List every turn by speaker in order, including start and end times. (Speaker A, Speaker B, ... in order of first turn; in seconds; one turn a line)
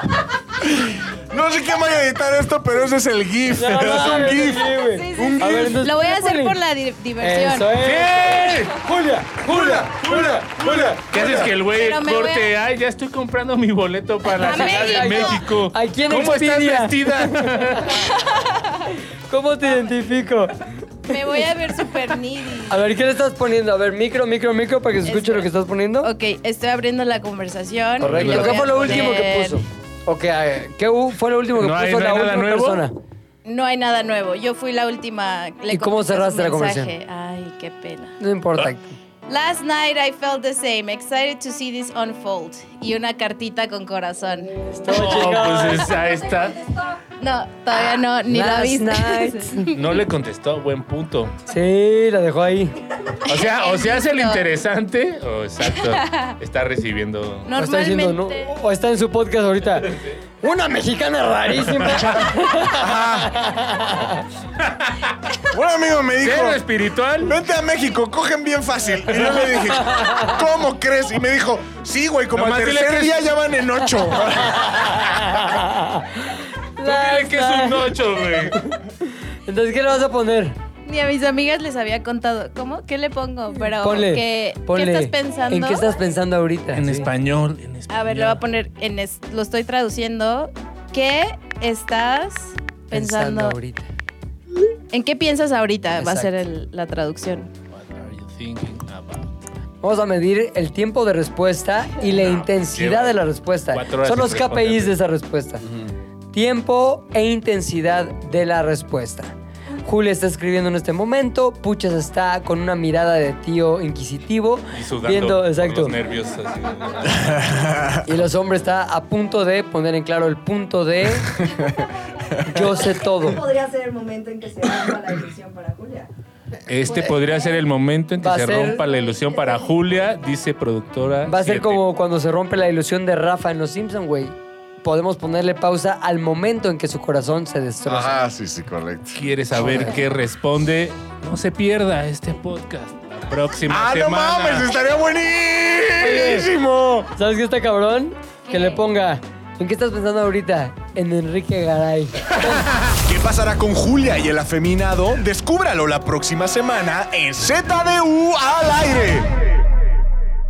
Speaker A: 0.6-5.7
Speaker B: 3.5-6.6
Speaker C: 3.9-7.7
Speaker B: 7.2-9.8
Speaker D: 7.8-8.9
Speaker D: 9.4-18.0
Speaker A: 9.4-11.5
Speaker C: 11.6-12.5
Speaker C: 14.3-15.4
Speaker B: 14.5-18.1
Speaker C: 18.1-18.6
Speaker B: 19.3-20.6
Speaker C: 21.1-22.8
Speaker B: 22.7-26.1
Speaker C: 25.0-25.5
Speaker C: 26.0-29.6
Speaker B: 28.0-32.9
Speaker D: 28.0-29.1
Speaker D: 31.6-32.8
Speaker C: 33.5-38.2
Speaker B: 35.7-36.9
Speaker B: 38.2-39.0
Speaker C: 39.3-44.6
Speaker B: 44.7-45.9
Speaker D: 44.9-46.7
Speaker C: 47.2-49.9
Speaker B: 48.3-49.6
Speaker D: 49.7-51.4
Speaker B: 51.5-52.8
Speaker C: 53.2-54.4
Speaker D: 53.3-57.5
Speaker C: 55.8-56.3
Speaker C: 57.5-58.5
Speaker B: 57.6-64.2
Speaker A: 62.1-63.3
Speaker D: 64.6-65.0
Speaker A: 65.5-66.6
Speaker D: 66.2-67.3
Speaker A: 67.2-75.4
Speaker D: 72.3-73.2
Speaker B: 74.6-77.9
Speaker D: 76.8-78.6
Speaker B: 78.5-78.8
Speaker B: 79.5-80.6
Speaker C: 80.8-85.9
Speaker B: 83.8-87.1
Speaker D: 86.7-88.4
Speaker C: 87.9-93.5
Speaker B: 92.9-93.9
Speaker C: 94.9-97.5
Speaker B: 96.0-96.4
Speaker D: 97.7-99.3
Speaker B: 99.8-105.7
Speaker D: 102.1-104.9
Speaker A: 105.6-105.9
Speaker B: 106.3-116.0
Speaker D: 114.7-117.2
Speaker A: 117.0-118.0
Speaker B: 118.0-121.5
Speaker A: 121.3-121.8
Speaker B: 122.4-123.5
Speaker E: 122.6-126.1
Speaker D: 126.7-131.8
Speaker B: 128.2-128.8
Speaker B: 131.2-138.2
Speaker A: 137.9-139.9
Speaker D: 139.1-144.7
Speaker B: 139.6-139.9
Speaker A: 143.7-147.1
Speaker B: 146.0-146.5
Speaker B: 147.2-152.7
Speaker C: 148.5-148.8
Speaker A: 152.9-159.3